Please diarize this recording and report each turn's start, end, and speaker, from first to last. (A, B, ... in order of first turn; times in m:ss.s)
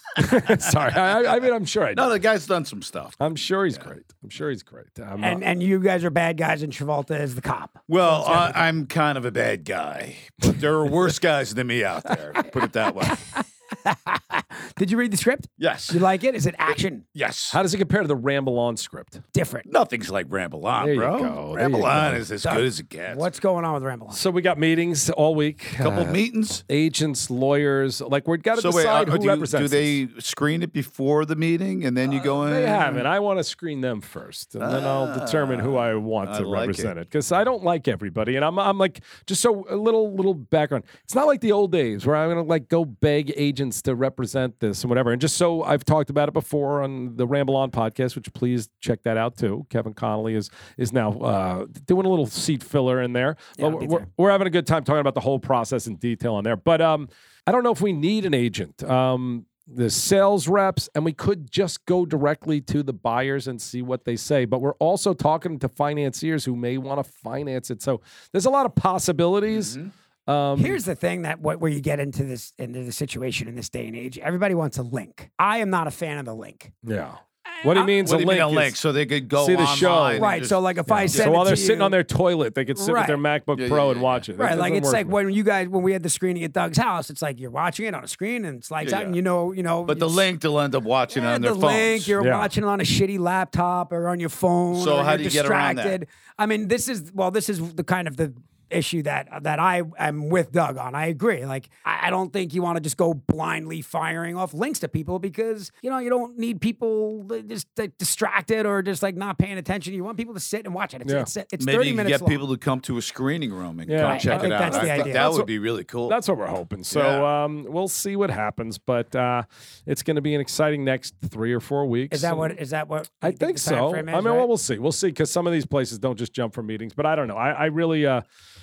0:00.1-0:02.1 A
0:00.2-0:00.6 B
0:01.9-0:03.2 B
0:03.2-0:05.4 A
0:05.2-0:08.6 C
0:07.9-0:13.2 B
0:13.0-0:17.0 C
0:15.6-0:16.0 B
0:17.1-0:17.6 B
0:17.5-0:19.2 A
0:19.3-0:19.7 C
0:19.7-0:23.3 B
0:20.8-0:22.2 A
0:22.4-0:24.2 C
0:24.1-0:30.0 A
0:25.8-0:26.6 B
0:28.5-0:33.0 B
0:32.2-1:09.7 A
0:34.6-0:36.9 B
0:53.6-0:54.0 C
1:09.5-1:09.9 B
1:10.3-1:10.8 A
1:10.6-1:16.7 C
1:16.9-1:18.8 A
1:17.6-1:17.9 C
1:18.0-1:21.3 B
1:19.4-1:20.3 A
1:20.2-1:22.0 C
1:20.9-1:25.2 A
1:22.8-1:23.2 C
1:23.6-1:24.2 B
1:24.4-1:30.3 C
1:28.8-1:29.2 B
1:29.9-1:32.1 B
1:31.1-1:52.4 C
1:32.2-1:32.5 A
1:34.7-1:36.0 B
1:51.6-1:56.2 B
1:53.9-1:55.5 A
1:54.0-1:55.3 C
1:56.0-2:02.5 A
1:56.9-1:57.3 B
2:02.1-2:04.5 C
2:03.2-2:08.2 A